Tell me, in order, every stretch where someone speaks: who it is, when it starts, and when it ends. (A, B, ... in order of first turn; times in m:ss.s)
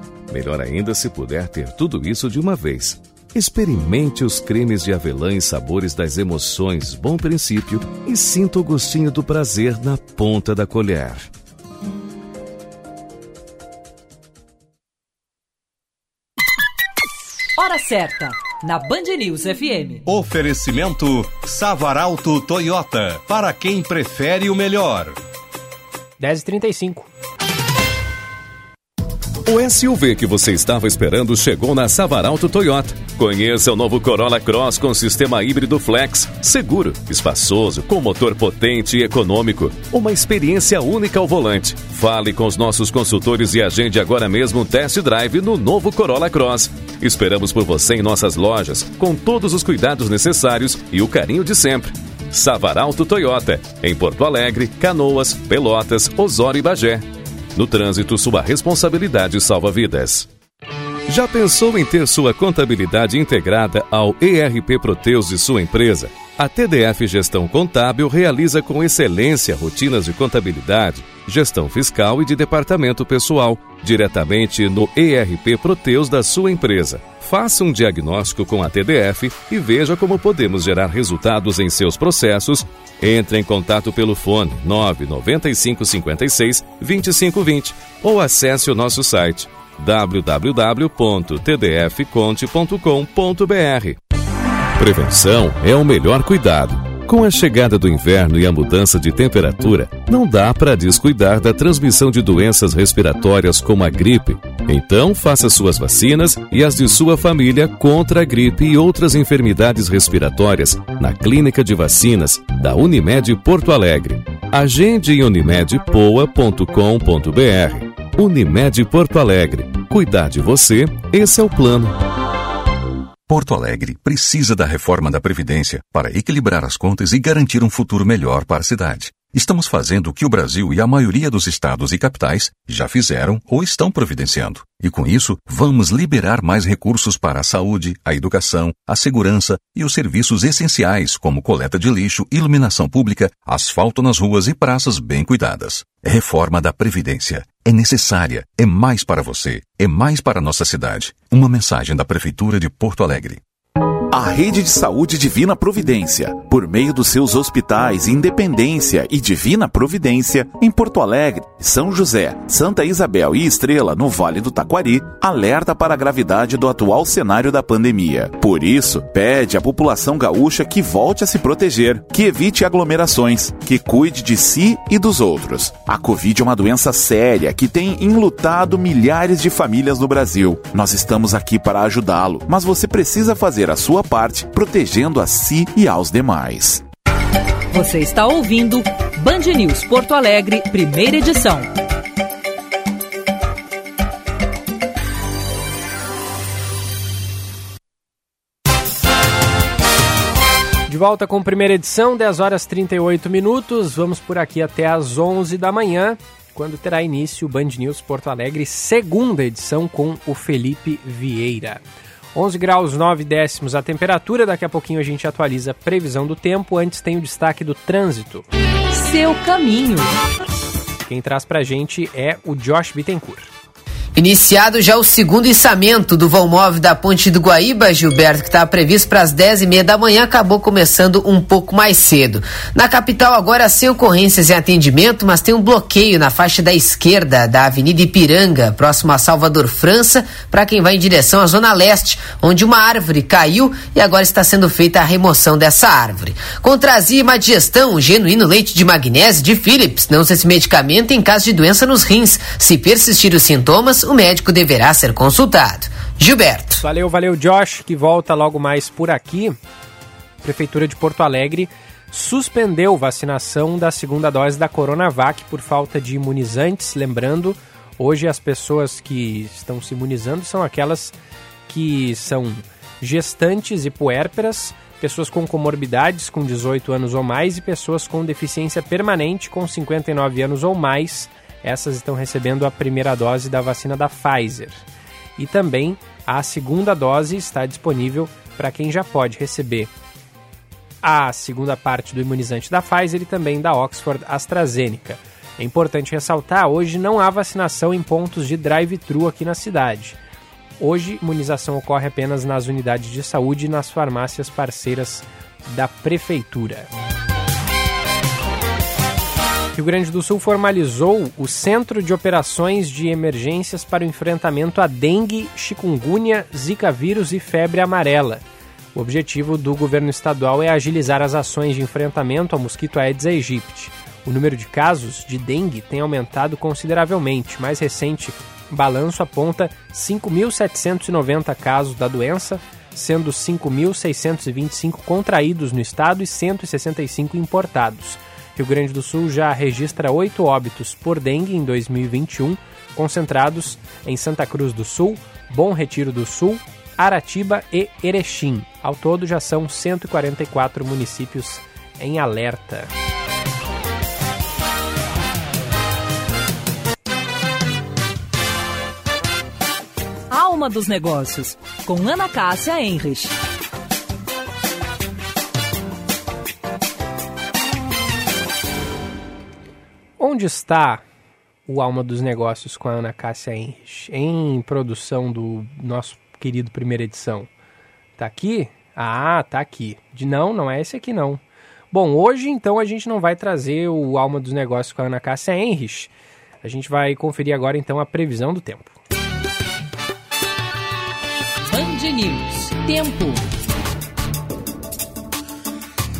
0:00.3-0:11.3 A
0:17.6-0:20.0 B
0:20.0-0:25.2 C
0:26.2-0:27.1 D
0:29.4-1:00.3 A
1:01.1-1:34.0 A
1:34.8-2:02.0 A
2:03.3-2:33.4 E
2:34.1-3:06.8 F
3:07.7-3:11.7 B
3:20.9-3:31.8 D
3:32.3-3:38.4 D
3:38.9-3:40.1 B
3:41.0-3:43.5 D
3:44.2-4:16.8 G
4:16.8-4:19.6 D
4:20.4-4:31.1 D
4:31.7-4:44.8 D
4:45.4-4:49.9 D
4:51.0-5:00.2 D
5:00.8-5:06.9 D
5:09.7-5:18.4 D
5:18.9-5:52.9 D
6:00.3-6:03.3 B
6:10.2-6:11.0 D
6:11.7-6:17.5 D
6:18.2-6:26.1 D
6:26.6-6:28.9 D
6:31.6-6:33.4 B